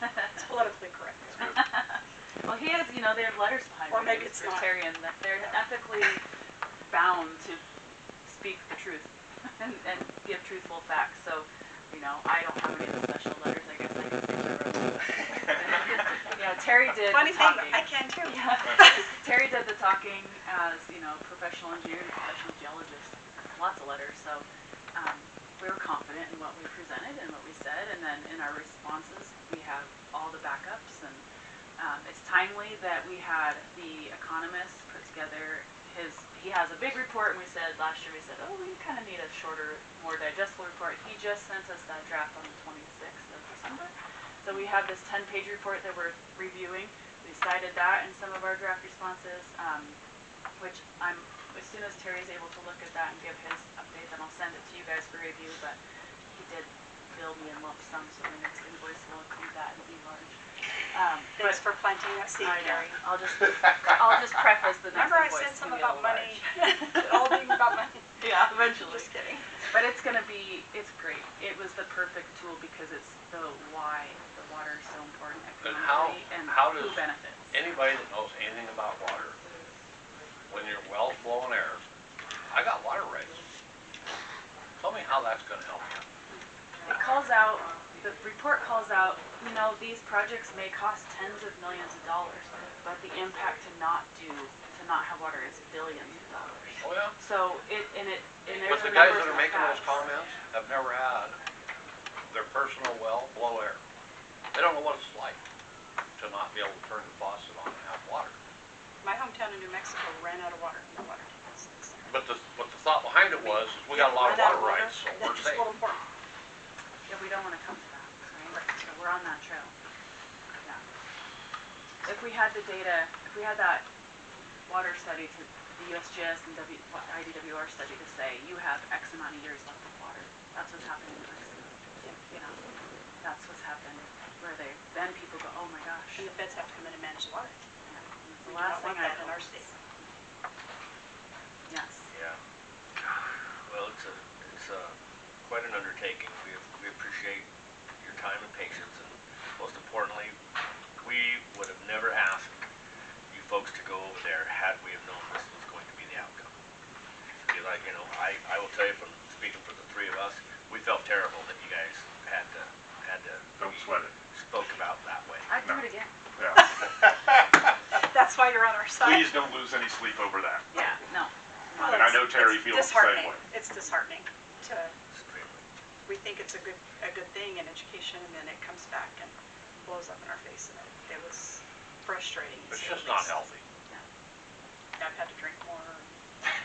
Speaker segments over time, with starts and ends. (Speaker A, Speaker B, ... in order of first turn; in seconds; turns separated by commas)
Speaker A: 0.3-1.5, Speaker B: 1.4-6.2, Speaker A: 3.9-4.8, Speaker B: 6.9-7.6, Speaker B: 8.2-31.2, Speaker A: 16.9-18.9, Speaker B: 31.8-50.0, Speaker B: 50.6-55.8, Speaker B: 56.3-60.3, Speaker B: 60.9-61.6, Speaker A: 61.4-63.0, Speaker B: 62.4-67.5, Speaker A: 64.9-68.1, Speaker B: 68.2-69.1, Speaker A: 68.6-69.4, Speaker B: 69.7-77.5, Speaker C: 75.6-79.4, Speaker C: 80.5-81.8, Speaker C: 82.4-83.5, Speaker C: 84.8-86.1, Speaker B: 86.8-100.0, Speaker C: 96.8-97.2, Speaker C: 98.6-101.4, Speaker C: 102.3-103.8, Speaker C: 104.5-105.4, Speaker C: 106.2-108.4, Speaker A: 109.0-112.1, Speaker C: 112.1-115.8, Speaker A: 113.5-116.0, Speaker B: 117.1-119.7, Speaker A: 118.5-118.8, Speaker B: 120.5-120.8, Speaker B: 122.0-123.9, Speaker B: 124.7-131.8, Speaker B: 132.3-132.6, Speaker B: 133.2-136.3, Speaker A: 136.2-137.6, Speaker B: 137.8-140.1, Speaker A: 138.4-139.7, Speaker B: 141.7-142.1, Speaker D: 142.1-142.4, Speaker D: 143.7-147.4, Speaker D: 148.0-150.3, Speaker D: 151.0-152.6, Speaker D: 153.3-156.5, Speaker D: 157.4-165.5, Speaker E: 163.6-164.1, Speaker B: 165.5-166.1, Speaker A: 167.9-169.5, Speaker E: 169.0-170.7, Speaker B: 170.7-172.4, Speaker A: 171.8-174.9, Speaker E: 171.9-173.4, Speaker D: 175.1-175.6, Speaker A: 176.1-183.3, Speaker C: 182.7-183.6, Speaker A: 185.0-186.1